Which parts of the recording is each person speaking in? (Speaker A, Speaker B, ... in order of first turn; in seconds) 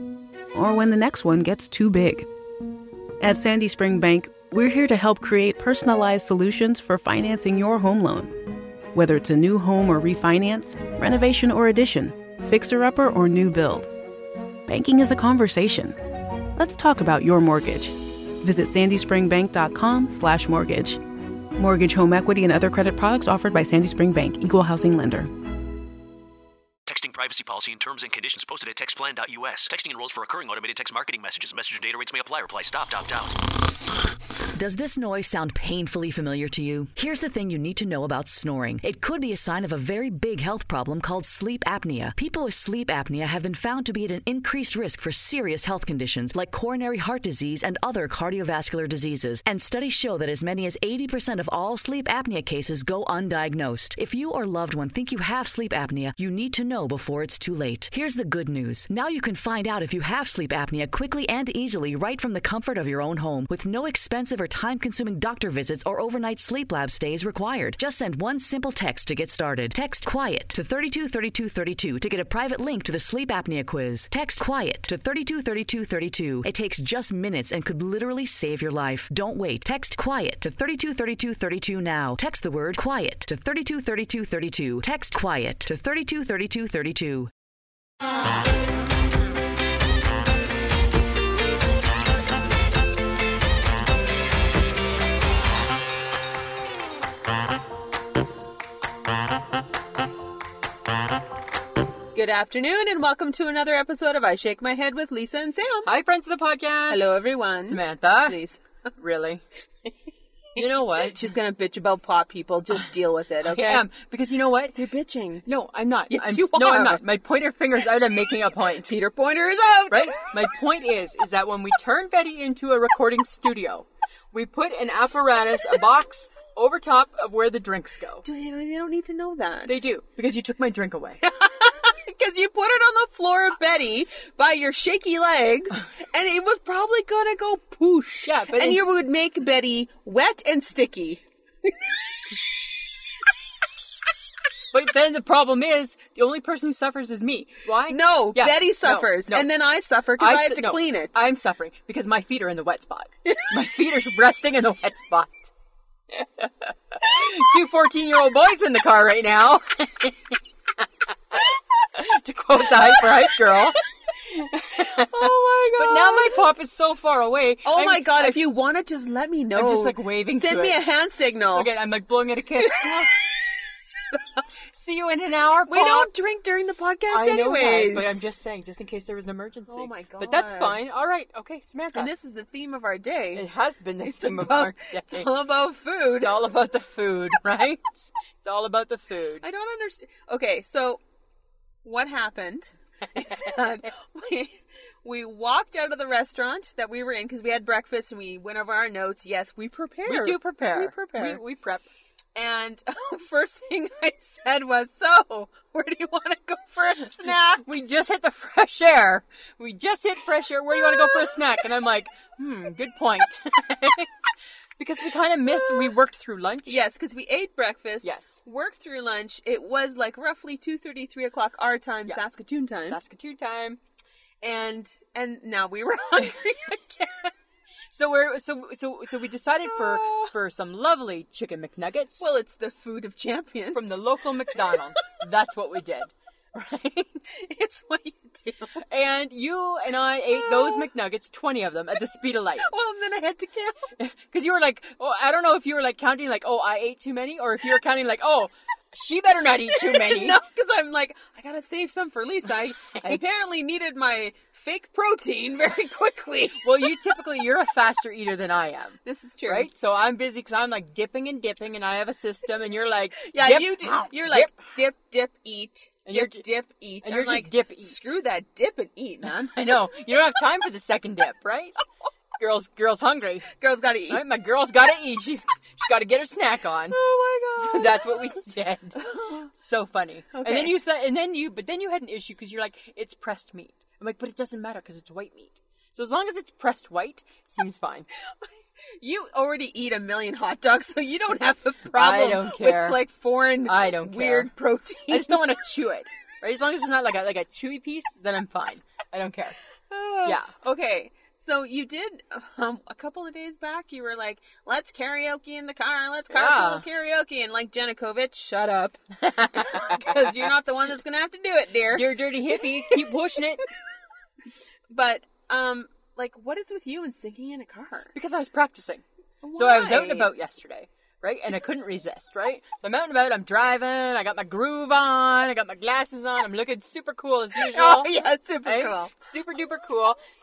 Speaker A: 0.5-2.3, 3.2-13.9, 14.7-16.0, 16.5-21.0, 21.6-25.3
Speaker B: 26.9-33.4
Speaker C: 34.5-87.3
Speaker D: 102.1-105.9, 106.9-108.6, 110.6-113.9, 114.8-115.5, 116.1-117.0, 118.9-120.2, 128.2-129.9, 131.2-141.7, 147.9-151.2, 153.3-153.5, 162.9-163.6, 164.8-166.5, 167.7-171.7, 172.6-173.0, 175.7-178.3, 179.7-180.8, 181.9-183.5, 184.0-186.3, 189.4-191.0, 191.8-201.4, 202.4-207.7, 210.7-211.4, 216.7-223.0, 224.4-227.3, 229.7-230.3, 232.2-234.0, 234.5-235.2, 237.3-238.8, 240.3-240.9, 242.6-243.9, 249.7-256.9, 259.1-259.7, 263.2-269.6, 273.5-274.3, 276.9-278.2, 279.0-279.5, 280.3-280.8, 288.4-295.4, 299.9-313.1, 314.9-318.1, 319.4-320.3, 327.6-329.1
Speaker E: 105.8-108.4, 109.0-109.4, 110.6-111.3, 113.4-114.8, 115.5-119.0, 119.9-128.2, 129.7-131.2, 138.2-138.9, 144.7-149.5, 150.2-155.5, 156.4-161.4, 161.9-168.4, 169.6-170.8, 171.5-173.2, 174.7-176.1, 177.1-182.1, 183.3-185.3, 186.2-189.5, 193.2-193.6, 200.1-201.9, 207.3-216.8, 218.0-218.4, 222.9-223.8, 227.9-232.3, 233.7-237.3, 238.9-242.7, 244.0-250.4, 252.8-253.2, 256.6-264.5, 266.1-266.4, 267.0-268.1, 269.2-271.8, 272.4-273.5, 274.1-277.0, 277.6-288.1, 291.9-293.0, 293.6-294.5, 295.1-299.6, 300.2-300.5, 306.3-306.9, 309.2-310.5, 311.9-313.6, 318.1-328.1, 328.6-330.2